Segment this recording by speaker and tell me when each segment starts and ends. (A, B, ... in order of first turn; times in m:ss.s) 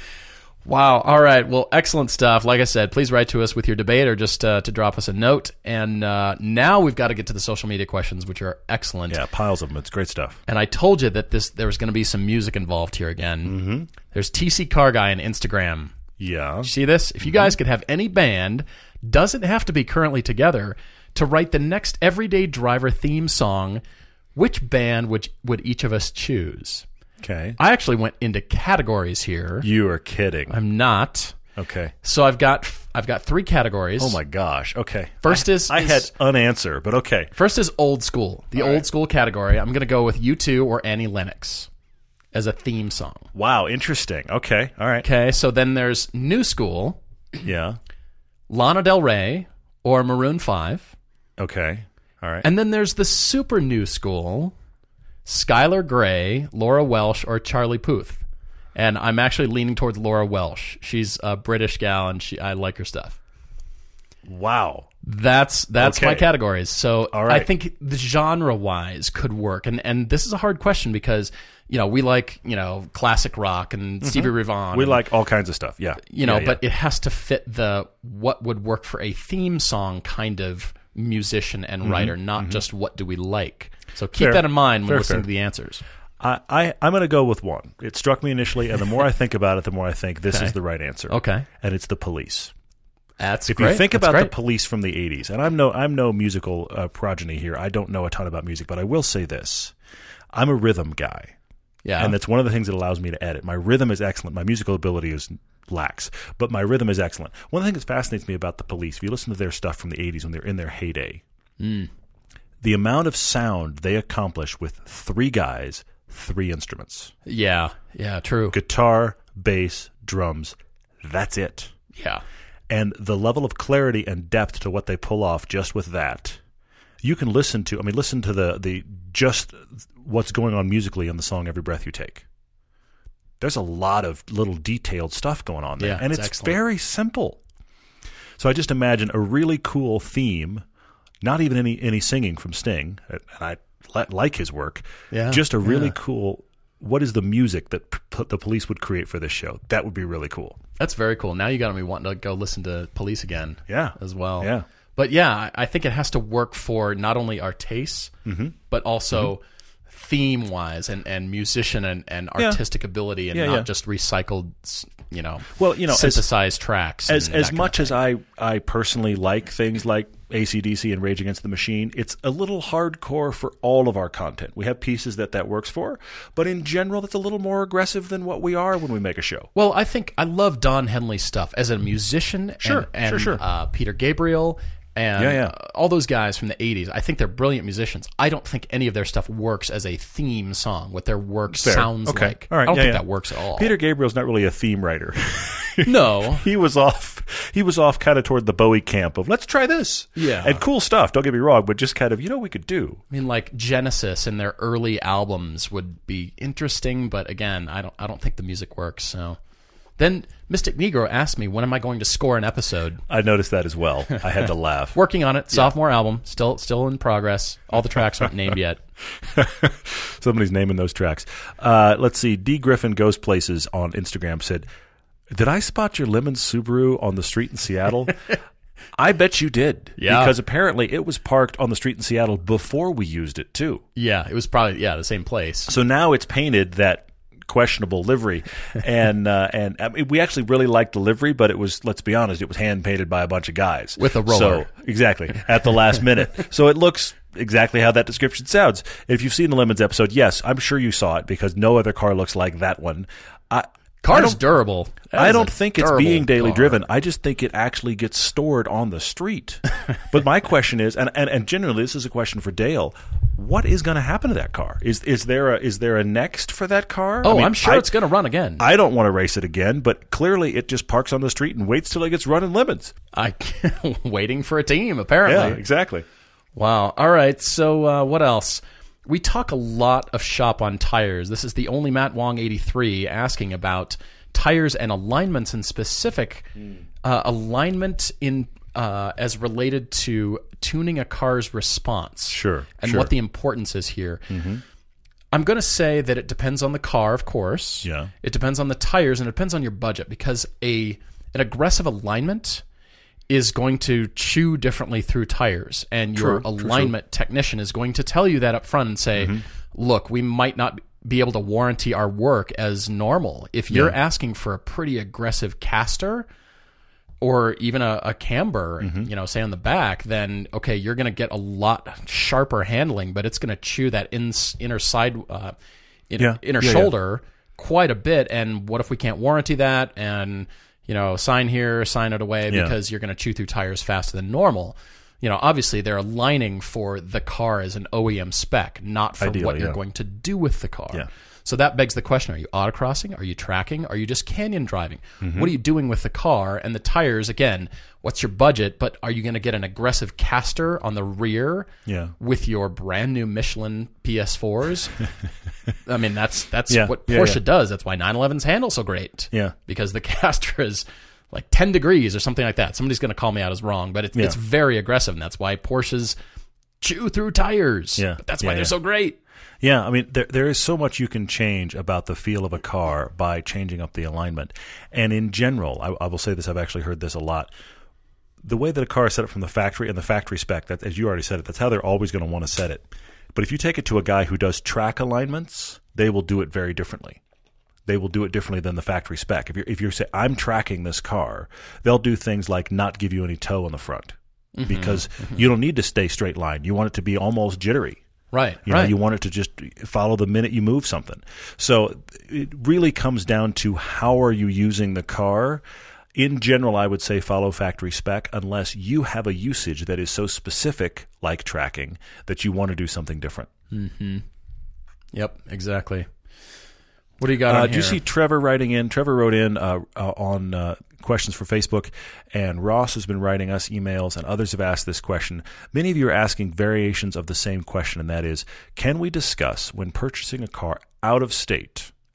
0:00.6-0:09.2 A
0:09.1-0:10.4 B
0:10.5-0:15.9 A
0:13.4-0:13.9 B
0:16.2-0:16.7 B
0:16.6-0:23.8 A
0:17.2-0:17.5 B
0:24.3-0:26.8 A
0:27.2-0:27.6 B
0:27.6-0:29.7 A
0:29.6-0:30.6 B
0:30.5-0:31.4 A
0:31.6-0:31.9 B
0:32.0-0:34.2 A
0:34.0-0:37.3 B
0:35.2-0:36.1 A
0:37.3-0:41.7 A
0:38.5-0:38.9 B
0:42.3-0:43.3 A
0:43.3-0:45.0 B
0:45.0-0:47.0 A
0:47.4-0:47.8 B
0:48.5-0:50.9 A
0:51.4-0:52.4 B
0:52.4-0:54.5 A
0:55.2-0:58.2 A
0:58.7-1:03.2 A
1:04.2-1:04.9 B
1:05.0-1:15.0 A
1:05.8-1:06.3 B
1:07.1-1:07.5 B
1:14.0-1:16.6 B
1:16.1-1:25.8 A
1:21.8-1:22.6 B
1:24.1-1:25.2 B
1:26.2-1:32.5 B
1:31.1-1:31.4 A
1:33.2-1:34.3 A
1:33.5-1:39.7 B
1:40.3-1:41.3 B
1:41.8-1:42.2 A
1:42.0-1:51.2 B
1:51.6-1:51.9 A
1:52.6-1:57.1 B
1:57.2-1:58.6 A
1:58.5-2:01.7 B
2:01.9-2:02.2 A
2:02.7-2:06.4 B
2:07.0-2:12.2 B
2:13.4-2:17.4 B
2:15.8-2:16.6 A
2:18.4-2:20.6 B
2:21.2-2:30.6 B
2:25.1-2:25.9 A
2:30.8-2:38.1 A
2:33.7-2:34.6 B
2:38.2-2:38.6 B
2:38.7-2:48.0 A
2:43.3-2:43.7 B
2:45.6-2:46.3 B
2:47.1-2:59.5 B
2:59.5-3:13.7 A
3:02.6-3:03.4 B
3:05.2-3:05.5 B
3:11.5-3:23.0 B
3:15.8-3:16.4 A
3:20.2-3:20.6 A
3:23.1-3:29.4 A
3:30.0-3:33.0 A
3:33.1-3:35.0 B
3:34.9-3:38.8 A
3:39.3-3:44.7 B
3:45.3-3:48.2 B
3:48.9-3:53.8 B
3:50.0-3:50.4 A
3:54.0-3:55.7 A
3:55.7-4:14.4 B
4:04.0-4:04.7 A
4:14.0-4:16.8 A
4:15.1-4:27.9 B
4:27.2-4:28.6 A
4:28.6-4:32.9 B
4:33.1-4:35.6 A
4:35.2-4:36.0 B
4:36.6-4:46.5 A
4:47.0-4:54.2 A
4:52.3-4:53.1 B
4:54.3-4:54.6 B
4:55.3-5:02.6 A
4:57.8-4:58.1 B
5:03.3-5:16.3 A
5:06.1-5:06.9 B
5:09.2-5:09.4 B
5:13.7-5:14.0 B
5:17.2-5:25.5 A
5:18.8-5:19.1 B
5:26.1-5:55.0 A
5:26.2-5:26.9 B
5:32.5-5:32.7 B
5:39.2-5:39.8 B
5:45.2-5:45.5 B
5:51.8-5:52.1 B
5:55.8-6:06.2 A
5:56.7-5:57.4 B
6:06.8-6:09.2 A
6:08.0-6:08.7 B
6:09.6-6:17.5 B
6:18.4-6:27.2 B
6:27.8-6:38.0 B
6:34.6-6:35.4 A
6:38.3-6:38.9 A
6:38.6-6:45.6 B
6:46.1-6:53.5 B
6:53.7-6:54.2 A
6:55.1-6:56.1 A
6:57.2-6:58.0 A
6:57.4-7:11.9 B